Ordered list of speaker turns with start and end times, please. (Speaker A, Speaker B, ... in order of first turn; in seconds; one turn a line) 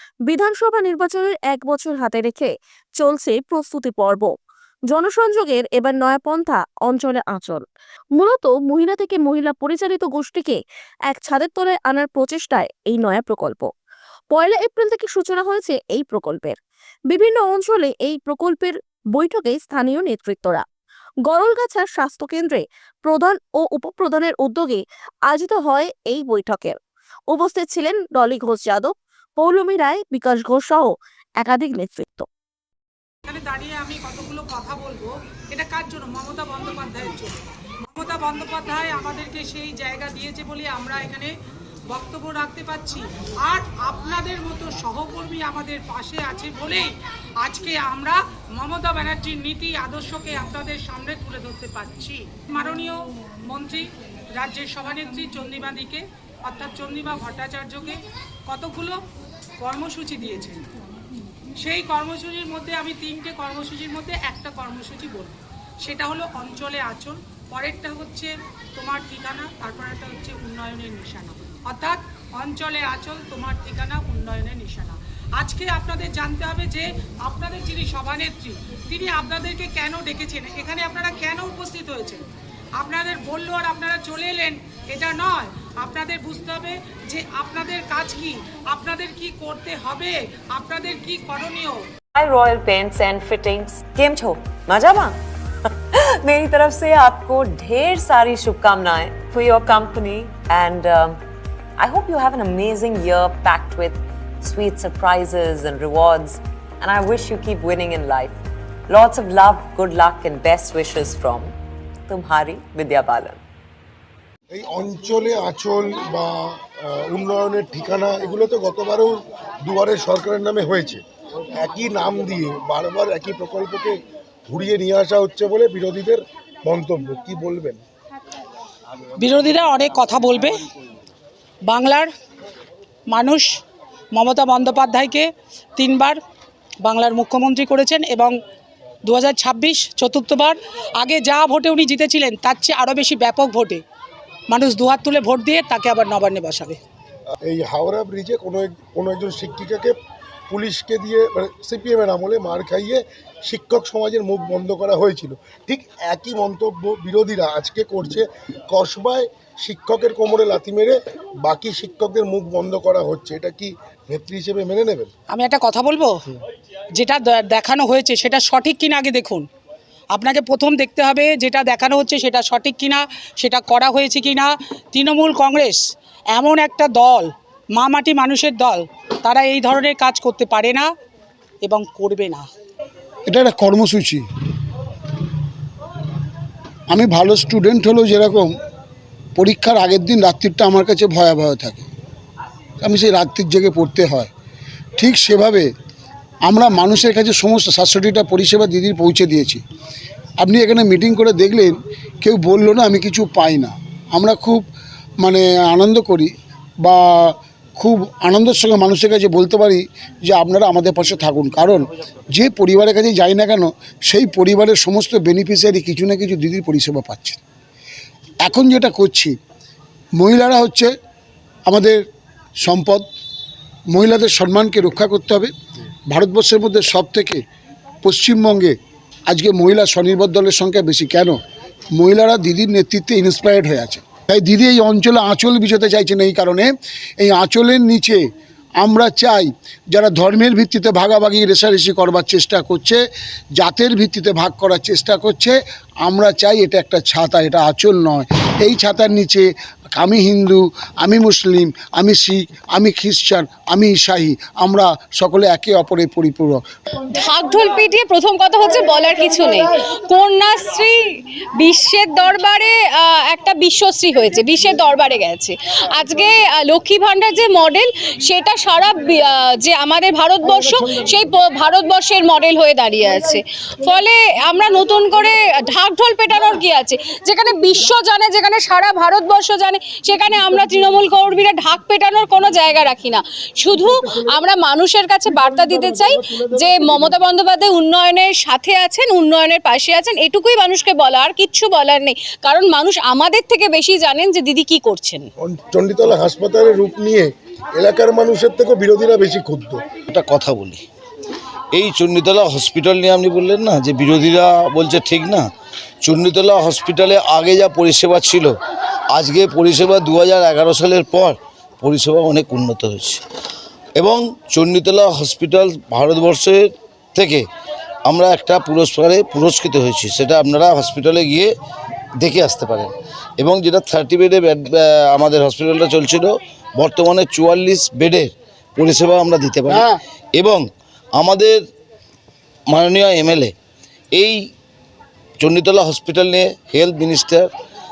Speaker A: 0.2-4.3
Speaker A: 4.9-7.6
Speaker A: 8.2-13.7
Speaker A: 14.3-20.6
Speaker A: 21.2-26.8
Speaker A: 27.3-32.3
Speaker B: 33.2-41.3
Speaker B: 41.9-59.0
Speaker B: 59.6-60.7
Speaker B: 61.6-82.2
Speaker B: 82.8-91.9
Speaker C: 92.1-95.2
Speaker C: 95.9-101.2
Speaker C: 101.8-111.5
Speaker C: 112.1-113.4
Speaker D: 114.5-121.0
Speaker D: 121.5-124.0
Speaker D: 124.5-127.8
Speaker B: 129.2-130.6
Speaker B: 131.7-132.1
Speaker B: 133.1-133.6
Speaker B: 134.1-136.2
Speaker B: 136.8-138.3
Speaker B: 139.0-143.8
Speaker B: 144.5-146.8
Speaker D: 147.4-149.9
Speaker D: 150.5-165.1
Speaker B: 165.3-166.1
Speaker B: 166.9-169.5
Speaker B: 170.1-180.9
Speaker B: 181.6-182.5
Speaker E: 183.3-184.2
Speaker E: 186.9-188.5
Speaker E: 189.3-191.8
Speaker E: 192.8-194.3
Speaker E: 195.0-195.7
Speaker E: 196.4-199.6
Speaker E: 200.4-204.6
Speaker E: 205.2-206.3
Speaker E: 206.8-217.4
Speaker E: 218.4-219.3
Speaker E: 220.2-220.9
Speaker E: 221.7-222.0
Speaker E: 222.6-223.1
Speaker E: 223.9-225.5
Speaker E: 226.1-227.4
Speaker E: 228.0-228.7
Speaker E: 229.3-231.4
Speaker E: 231.9-238.2
Speaker E: 238.8-243.0
Speaker E: 243.6-256.6
Speaker F: 257.1-295.3
Speaker D: 285.5-287.2
Speaker D: 295.4-299.8
Speaker G: 300.1-300.8
Speaker G: 301.7-305.5
Speaker G: 306.0-308.5
Speaker G: 309.1-313.2
Speaker G: 314.0-317.4
Speaker G: 318.0-321.5
Speaker G: 322.2-330.6
Speaker E: 329.7-330.0
Speaker G: 331.1-331.6
Speaker G: 332.7-333.5
Speaker G: 335.4-337.5